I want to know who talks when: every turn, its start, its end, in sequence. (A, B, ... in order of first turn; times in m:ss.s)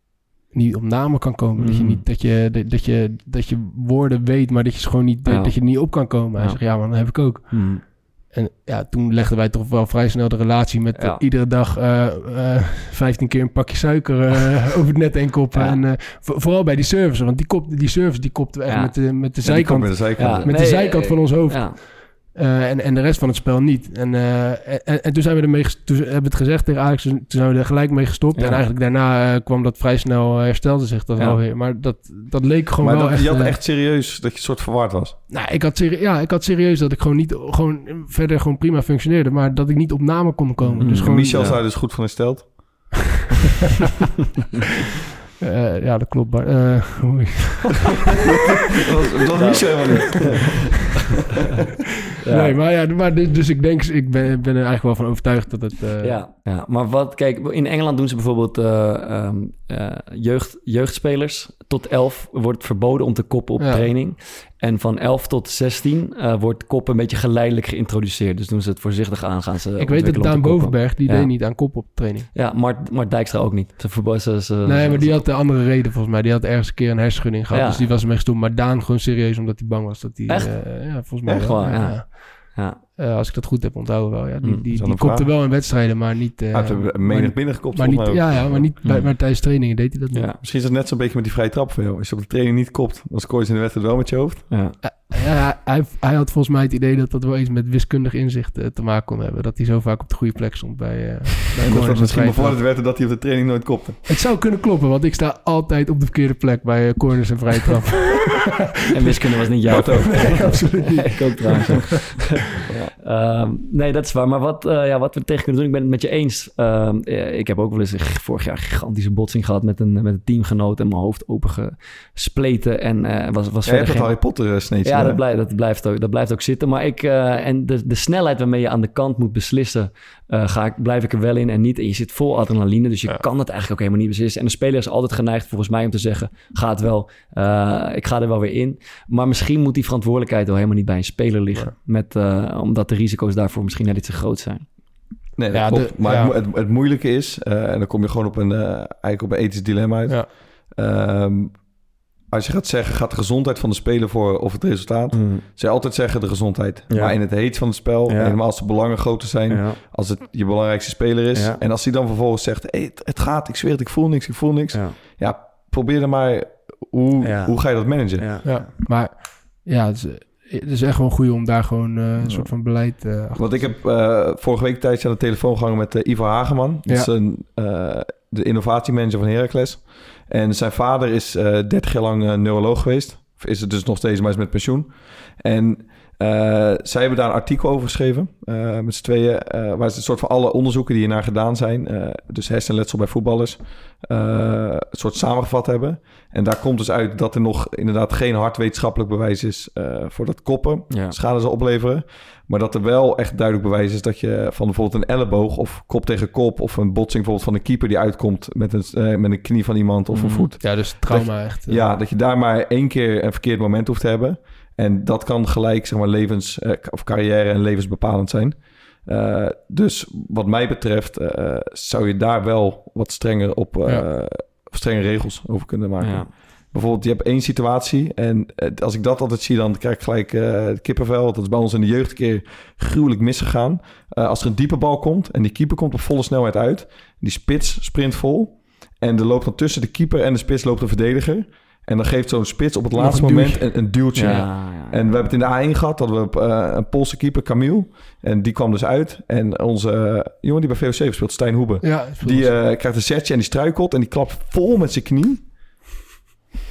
0:00.5-0:33.6 A
0:01.6-0:02.0 B
0:05.3-0:07.8 B
0:11.0-0:11.2 B
0:15.5-0:15.8 B
0:18.7-0:19.0 B
0:19.4-0:20.8 C
0:20.2-0:21.8 B
0:28.4-0:28.6 B
0:32.8-0:35.2 C
0:35.3-0:41.6 A
0:40.8-0:41.6 B
0:40.8-0:42.9 C
0:45.4-0:48.0 A
0:48.8-0:50.6 C
0:49.4-0:51.1 B
0:52.2-0:52.6 B
0:52.3-0:56.2 A
0:56.0-1:11.3 B
1:03.6-1:03.9 A
1:09.8-1:12.3 A
1:12.3-1:15.2 B
1:14.6-1:30.3 A
1:17.5-1:17.9 B
1:20.3-1:22.8 B
1:24.7-1:25.3 C
1:26.5-1:28.7 C
1:28.8-1:29.2 B
1:30.1-1:30.4 B
1:30.4-1:34.5 C
1:34.5-1:34.8 B
1:34.8-1:42.6 A
1:41.6-1:44.0 C
1:44.1-1:48.4 A
1:48.9-2:24.7 B
1:49.7-1:50.7 C
1:49.7-1:52.3 A
1:52.7-1:52.9 C
2:03.6-2:05.2 C
2:25.4-2:31.7 C
2:25.5-2:26.3 A
2:32.3-2:48.5 C
2:35.1-2:35.5 B
2:36.9-2:38.4 B
2:39.5-2:39.8 B
2:41.3-2:41.6 B
2:44.7-2:45.0 B
2:47.2-2:48.5 B
2:48.4-2:53.8 A
2:52.2-2:52.5 C
2:53.4-4:15.5 C
3:20.9-3:21.2 B
3:30.1-3:30.5 B
3:30.6-3:31.9 A
3:46.0-3:46.3 B
4:03.0-4:04.4 A
4:04.1-4:05.2 B
4:11.8-4:12.6 A